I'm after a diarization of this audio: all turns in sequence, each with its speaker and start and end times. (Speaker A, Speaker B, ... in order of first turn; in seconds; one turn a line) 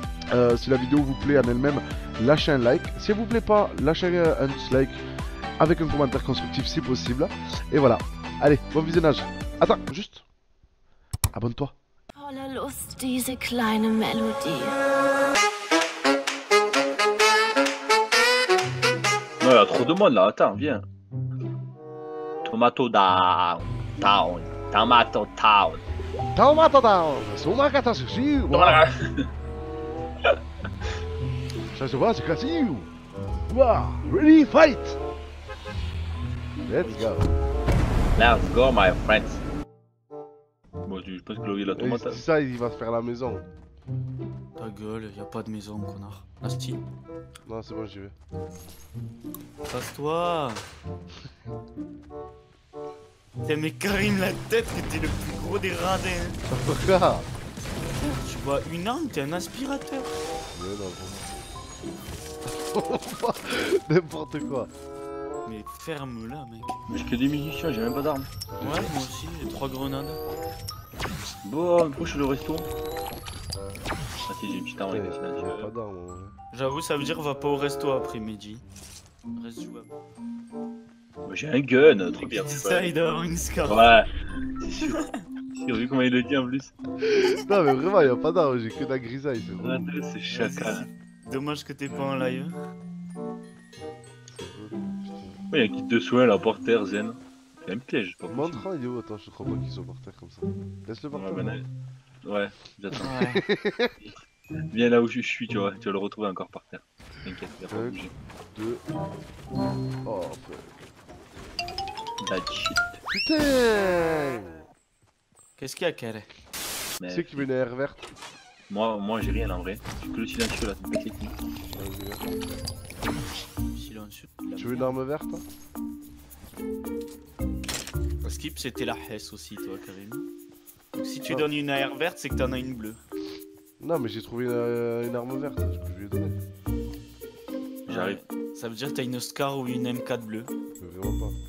Speaker A: 0.3-5.0
Speaker A: 5.6-10.2
Speaker A: 11.3-11.8
Speaker B: 12.2-14.8
Speaker C: 19.4-20.8
Speaker C: 22.4-25.8
Speaker A: 26.3-28.9
Speaker C: 28.5-29.3
Speaker A: 31.7-32.9
Speaker A: 33.5-35.0
Speaker A: 36.6-37.3
Speaker D: 36.8-37.2
Speaker C: 38.2-39.4
Speaker C: 40.8-42.2
Speaker A: 41.7-43.5
Speaker D: 44.5-46.8
Speaker A: 47.5-48.1
Speaker D: 49.6-50.7
Speaker D: 53.4-56.4
Speaker A: 56.5-57.3
Speaker D: 58.0-60.1
Speaker A: 60.5-61.2
Speaker A: 62.5-64.7
Speaker D: 65.5-66.8
Speaker C: 66.9-68.3
Speaker A: 68.5-68.9
Speaker D: 68.6-70.2
Speaker C: 71.4-72.7
Speaker C: 74.3-75.7
Speaker A: 74.9-76.3
Speaker D: 76.5-78.6
Speaker D: 79.4-80.0
Speaker C: 81.2-83.0
Speaker D: 82.1-84.0
Speaker C: 83.6-84.1
Speaker C: 84.6-86.7
Speaker D: 84.9-85.2
Speaker A: 87.1-89.9
Speaker C: 89.6-90.9
Speaker D: 90.3-92.6
Speaker A: 94.3-95.4
Speaker C: 95.5-98.6
Speaker A: 98.3-101.6
Speaker C: 101.1-101.7
Speaker C: 102.2-103.2
Speaker D: 103.0-103.4
Speaker A: 103.1-103.9
Speaker C: 104.7-108.1
Speaker A: 107.7-108.8
Speaker A: 110.0-110.8
Speaker C: 112.2-113.0
Speaker A: 113.1-114.6
Speaker D: 115.6-116.3
Speaker C: 117.0-117.5
Speaker A: 117.0-118.1
Speaker C: 118.7-121.3
Speaker A: 121.7-122.3
Speaker D: 123.7-124.9
Speaker A: 124.5-125.4
Speaker D: 128.2-130.3
Speaker D: 130.9-133.0
Speaker A: 133.8-136.4
Speaker C: 137.9-138.2
Speaker D: 137.9-140.5
Speaker A: 140.8-141.4